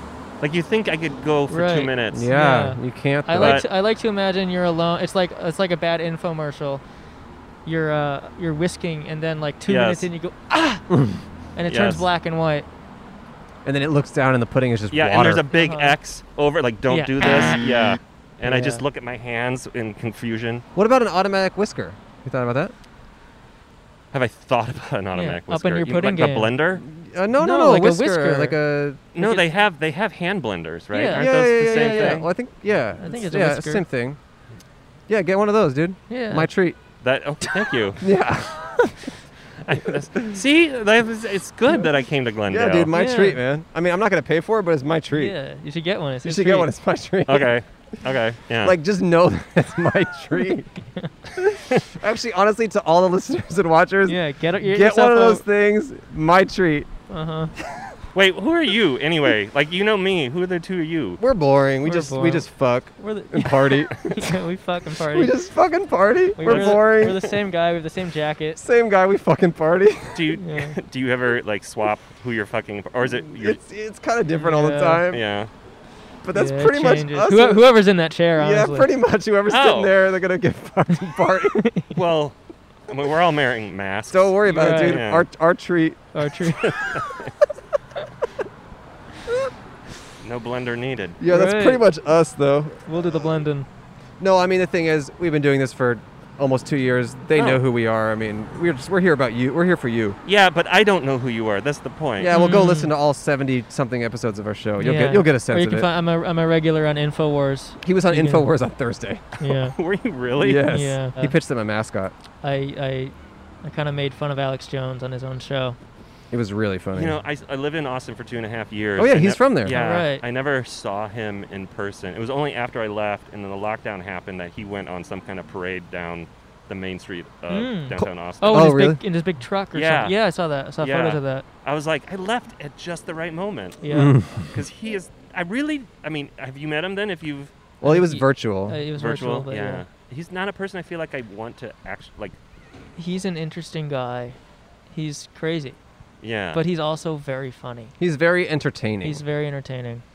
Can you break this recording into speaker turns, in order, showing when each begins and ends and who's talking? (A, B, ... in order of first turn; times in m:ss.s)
0:00.4-0:02.3 A
0:01.5-0:06.8 B
0:02.1-0:03.6 C
0:03.4-0:03.6 A
0:07.6-0:10.8 B
0:09.7-0:10.1 A
0:10.9-0:11.2 C
0:11.5-0:12.6 B
0:11.7-0:12.0 A
0:13.6-0:15.4 C
0:14.9-0:20.6 A
0:15.5-0:15.9 B
0:16.9-0:17.6 B
0:18.4-0:18.8 B
0:20.7-0:22.7 C
0:24.1-0:26.8 A
0:25.1-0:26.5 B
0:26.8-0:29.0 C
0:27.4-0:28.6 B
0:29.1-0:32.2 A
0:29.2-0:29.5 B
0:30.9-0:32.2 B
0:31.1-0:34.2 C
0:33.0-0:33.8 B
0:35.1-0:36.8 C
0:36.1-0:36.5 B
0:37.0-0:38.0 A
0:38.0-0:39.0 C
0:39.6-0:42.9 A
0:42.5-0:45.3 C
0:42.9-0:43.4 B
0:45.1-0:46.7 B
0:46.2-0:47.5 C
0:47.2-0:48.8 A
0:48.6-0:50.7 C
0:51.4-0:56.9 C
0:54.0-0:55.4 B
0:57.1-0:57.5 B
0:58.1-1:01.2 A
1:01.2-1:04.4 C
1:01.8-1:02.4 B
1:03.0-1:05.3 B
1:05.1-1:07.2 C
1:06.4-1:08.6 B
1:06.4-1:07.3 A
1:08.6-1:10.2 C
1:10.1-1:13.6 A
1:10.4-1:10.7 B
1:13.2-1:15.2 C
1:14.4-1:15.0 B
1:15.1-1:15.5 A
1:16.2-1:17.7 C
1:16.3-1:18.9 B
1:18.4-1:21.6 C
1:19.5-1:19.9 A
1:21.6-1:21.9 B
1:21.9-1:22.4 A
1:22.9-1:25.3 A
1:24.1-1:27.0 C
1:24.5-1:25.0 B
1:26.1-1:26.6 B
1:26.7-1:27.2 A
1:30.2-1:31.2 A
1:31.2-1:32.7 C
1:31.3-1:31.8 B
1:32.9-1:33.7 B
1:34.2-1:40.2 C
1:37.3-1:37.6 A
1:40.2-1:42.4 A
1:42.2-1:45.9 C
1:42.3-1:42.9 B
1:44.8-1:48.5 B
1:47.8-1:49.3 C
1:49.4-1:49.7 B
1:49.4-1:50.7 A
1:50.4-1:52.1 C
1:50.7-1:51.3 B
1:52.4-1:55.8 B
1:56.3-1:57.2 C
1:56.9-2:08.7 A
1:59.0-1:59.8 C
1:59.7-2:00.2 B
2:07.5-2:11.4 B
2:08.5-2:09.0 C
2:09.7-2:10.1 A
2:10.8-2:13.8 A
2:13.8-2:14.1 B
2:13.9-2:14.4 C
2:14.4-2:17.5 A
2:17.8-2:18.8 C
2:17.8-2:19.8 B
2:18.9-2:22.3 A
2:23.0-2:24.4 B
2:24.9-2:25.8 B
2:26.2-2:26.6 A
2:26.5-2:27.9 B
2:28.0-2:29.2 C
2:29.0-2:30.0 B